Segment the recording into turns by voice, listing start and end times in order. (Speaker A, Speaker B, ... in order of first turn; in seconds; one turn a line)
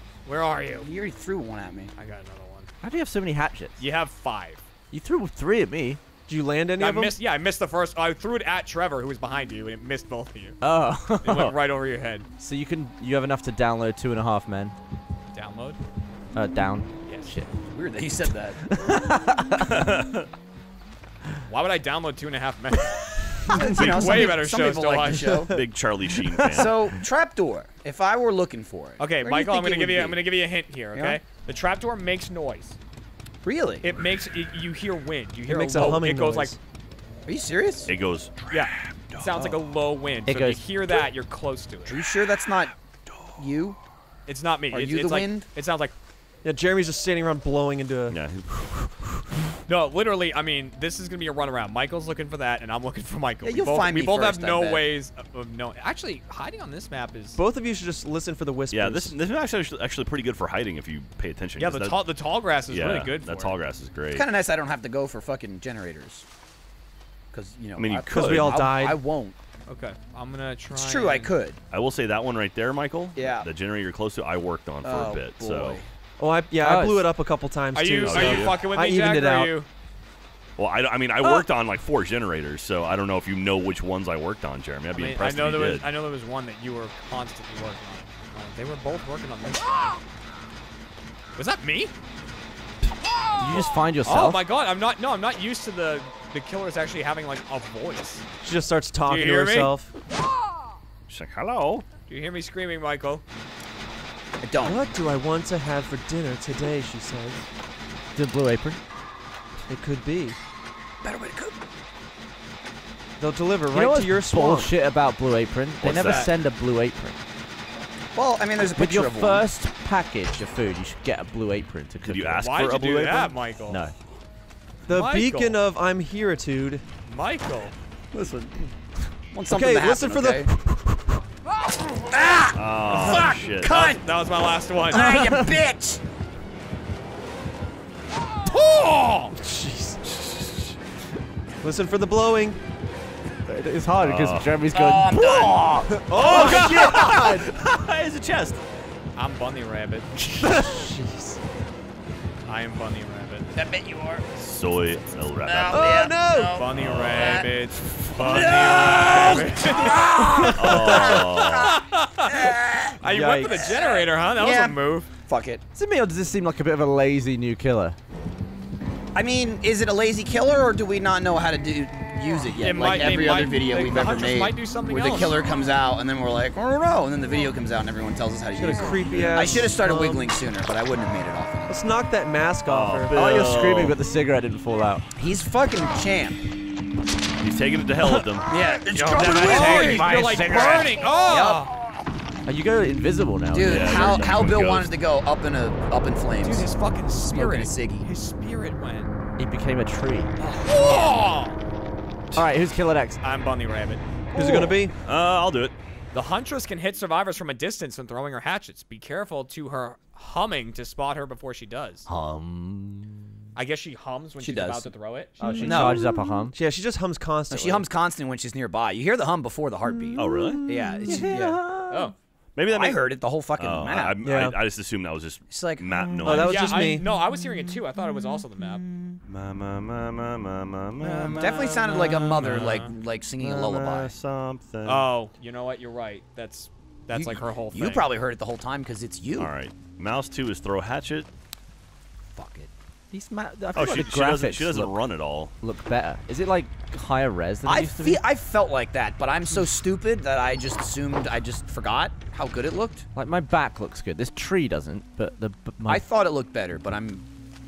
Speaker A: 0.2-0.9
Speaker B: 0.8-1.9
Speaker A: 2.0-2.7
Speaker C: 2.8-3.8
Speaker A: 3.8-4.6
Speaker C: 4.9-6.0
Speaker D: 6.3-7.2
Speaker A: 6.8-10.6
Speaker C: 10.6-11.5
Speaker A: 11.2-12.3
Speaker C: 12.4-14.7
Speaker A: 15.3-15.8
Speaker C: 16.3-17.5
Speaker A: 17.1-17.3
Speaker B: 17.7-18.6
Speaker C: 18.8-19.8
Speaker E: 19.6-20.3
Speaker A: 21.5-25.5
Speaker B: 23.5-25.6
Speaker E: 23.7-24.4
Speaker E: 25.5-26.9
Speaker B: 26.5-30.2
Speaker A: 29.0-32.8
Speaker B: 30.9-31.2
Speaker B: 33.4-33.9
Speaker A: 33.8-36.6
Speaker D: 35.5-36.6
Speaker B: 35.8-36.0
Speaker B: 37.3-37.9
Speaker E: 37.9-39.3
Speaker A: 38.5-42.1
Speaker C: 40.3-40.7
Speaker B: 41.9-42.8
Speaker B: 43.4-43.8
Speaker A: 44.3-45.9
Speaker B: 44.7-45.5
Speaker D: 46.4-48.2
Speaker E: 48.1-49.0
Speaker A: 49.7-57.4
Speaker B: 53.4-54.9
Speaker D: 57.4-59.2
Speaker E: 58.7-62.0
Speaker A: 61.6-63.5
Speaker E: 62.7-64.3
Speaker B: 64.1-66.2
Speaker B: 67.3-69.4
Speaker E: 67.8-68.7
Speaker D: 68.1-69.0
Speaker A: 69.7-71.3
Speaker B: 70.7-71.6
Speaker E: 71.7-75.8
Speaker B: 73.2-73.5
Speaker B: 74.8-75.9
Speaker D: 76.2-79.6
Speaker C: 76.6-77.1
Speaker A: 77.7-79.7
Speaker E: 78.0-78.6
Speaker E: 80.6-85.9
Speaker A: 84.9-90.0
Speaker A: 91.4-91.9
Speaker C: 93.4-94.4
Speaker A: 94.0-98.2
Speaker D: 98.4-99.9
Speaker A: 99.1-99.8
Speaker E: 101.1-101.8
Speaker A: 102.1-103.2
Speaker B: 104.4-104.8
Speaker D: 104.6-107.5
Speaker C: 108.2-108.8
Speaker D: 109.7-110.4
Speaker B: 111.0-111.6
Speaker D: 113.2-114.7
Speaker C: 113.7-117.2
Speaker E: 115.8-116.3
Speaker B: 115.9-116.3
Speaker B: 118.1-119.5
Speaker C: 118.8-122.5
Speaker E: 122.0-123.3
Speaker A: 122.4-123.8
Speaker D: 124.9-126.8
Speaker A: 124.9-125.6
Speaker A: 127.1-127.7
Speaker E: 128.1-128.6
Speaker B: 129.3-130.5
Speaker D: 129.5-131.0
Speaker B: 132.0-134.0
Speaker E: 132.5-133.7
Speaker A: 133.6-135.1
Speaker B: 134.9-136.0
Speaker C: 135.2-135.5
Speaker A: 138.5-139.3
Speaker D: 139.3-140.6
Speaker D: 141.6-142.6
Speaker C: 143.5-147.3
Speaker E: 144.0-148.6
Speaker B: 144.7-146.2
Speaker D: 145.9-147.5
Speaker A: 149.2-150.9
Speaker D: 150.5-151.3
Speaker A: 152.5-153.5
Speaker B: 153.5-154.3
Speaker E: 154.3-156.1
Speaker B: 155.4-165.6
Speaker D: 155.7-156.7
Speaker A: 156.5-160.5
Speaker E: 156.7-157.5
Speaker E: 158.6-159.5
Speaker D: 160.1-161.2
Speaker E: 160.4-161.8
Speaker A: 161.6-165.1
Speaker D: 163.0-163.7
Speaker C: 165.8-168.0
Speaker B: 169.2-181.8
Speaker A: 172.6-175.4
Speaker D: 178.5-180.4
Speaker E: 179.0-179.7
Speaker D: 181.7-183.2
Speaker E: 182.7-184.0
Speaker C: 183.1-185.0
Speaker B: 185.2-186.4
Speaker E: 187.4-188.5
Speaker C: 188.0-190.9
Speaker B: 188.5-191.7
Speaker A: 189.2-191.7
Speaker C: 192.5-194.3
Speaker B: 193.5-196.7
Speaker E: 193.6-194.9
Speaker A: 196.4-199.1
Speaker B: 197.2-198.1
Speaker C: 199.4-200.3
Speaker B: 200.4-201.1
Speaker A: 200.6-201.6
Speaker C: 202.3-203.2
Speaker A: 203.2-204.0
Speaker D: 204.3-204.9
Speaker E: 205.1-205.8
Speaker A: 206.1-212.1
Speaker C: 212.1-213.2
Speaker A: 213.6-215.9
Speaker B: 214.4-214.9
Speaker C: 215.4-216.6
Speaker D: 215.4-217.9
Speaker B: 215.6-216.0
Speaker B: 217.5-221.6
Speaker E: 220.2-220.7
Speaker C: 220.4-222.1
Speaker A: 221.9-222.2
Speaker E: 222.6-226.9
Speaker B: 222.7-224.2
Speaker D: 224.2-224.6
Speaker B: 225.5-226.0
Speaker D: 226.2-227.2
Speaker A: 226.3-228.8
Speaker E: 229.3-232.8
Speaker B: 231.3-234.1
Speaker A: 231.4-231.8
Speaker A: 232.4-232.9
Speaker E: 233.4-235.1
Speaker A: 234.9-238.1
Speaker B: 237.1-239.5
Speaker E: 239.4-241.3
Speaker B: 242.4-242.7
Speaker C: 243.1-245.0
Speaker E: 243.8-245.5
Speaker C: 245.6-248.2
Speaker B: 247.7-253.1
Speaker C: 253.2-256.1
Speaker B: 255.9-257.3